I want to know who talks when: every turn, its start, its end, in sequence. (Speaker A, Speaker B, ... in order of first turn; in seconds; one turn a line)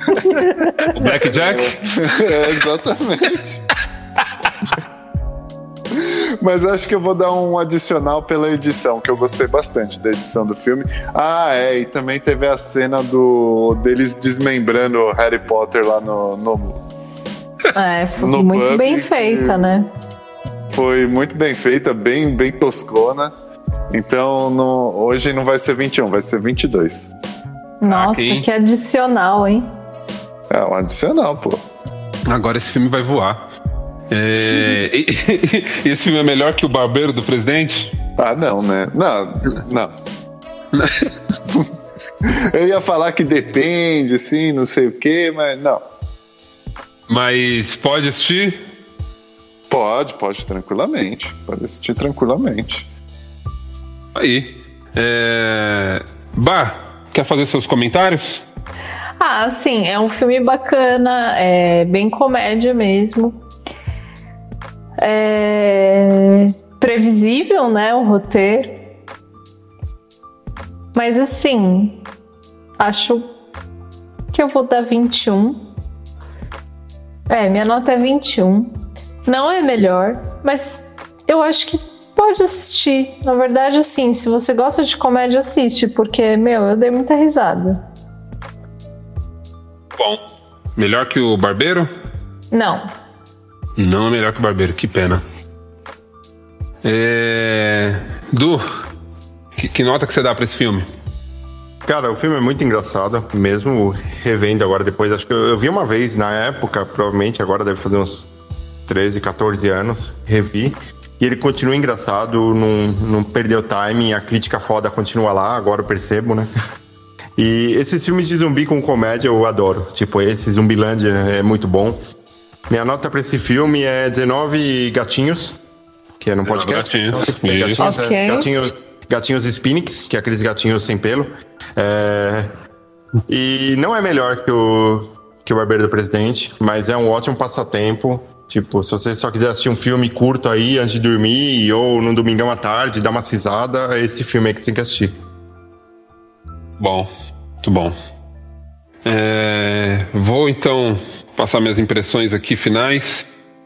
Speaker A: 0.4-0.9
Speaker B: 0.9-2.0
Speaker C: 1.3-3.6
Speaker C: 5.9-16.8
Speaker D: 17.7-19.9
Speaker C: 18.2-19.7
Speaker C: 20.7-23.3
Speaker C: 23.9-27.1
Speaker D: 27.8-29.7
Speaker B: 27.9-28.5
Speaker C: 30.5-31.6
Speaker B: 32.3-33.4
Speaker B: 34.1-37.9
Speaker C: 38.2-39.9
Speaker B: 40.7-41.1
Speaker C: 42.2-45.8
Speaker B: 47.1-48.6
Speaker C: 49.7-52.9
Speaker B: 54.1-58.5
Speaker D: 59.2-63.4
Speaker D: 65.0-68.8
Speaker D: 70.9-72.0
Speaker D: 72.8-73.3
Speaker D: 74.3-75.6
Speaker D: 77.3-78.7
Speaker D: 79.2-87.8
Speaker B: 90.8-91.9
Speaker D: 92.5-92.8
Speaker B: 93.8-95.2
Speaker B: 96.8-98.7
Speaker B: 99.6-100.9
Speaker A: 101.9-108.3
Speaker A: 108.9-116.5
Speaker A: 117.4-122.0
Speaker A: 122.7-125.6
Speaker A: 126.2-132.5
Speaker B: 126.5-127.8
Speaker D: 127.8-128.5
Speaker A: 133.3-145.2
Speaker B: 146.8-147.1
Speaker B: 147.6-147.9
Speaker B: 149.1-153.3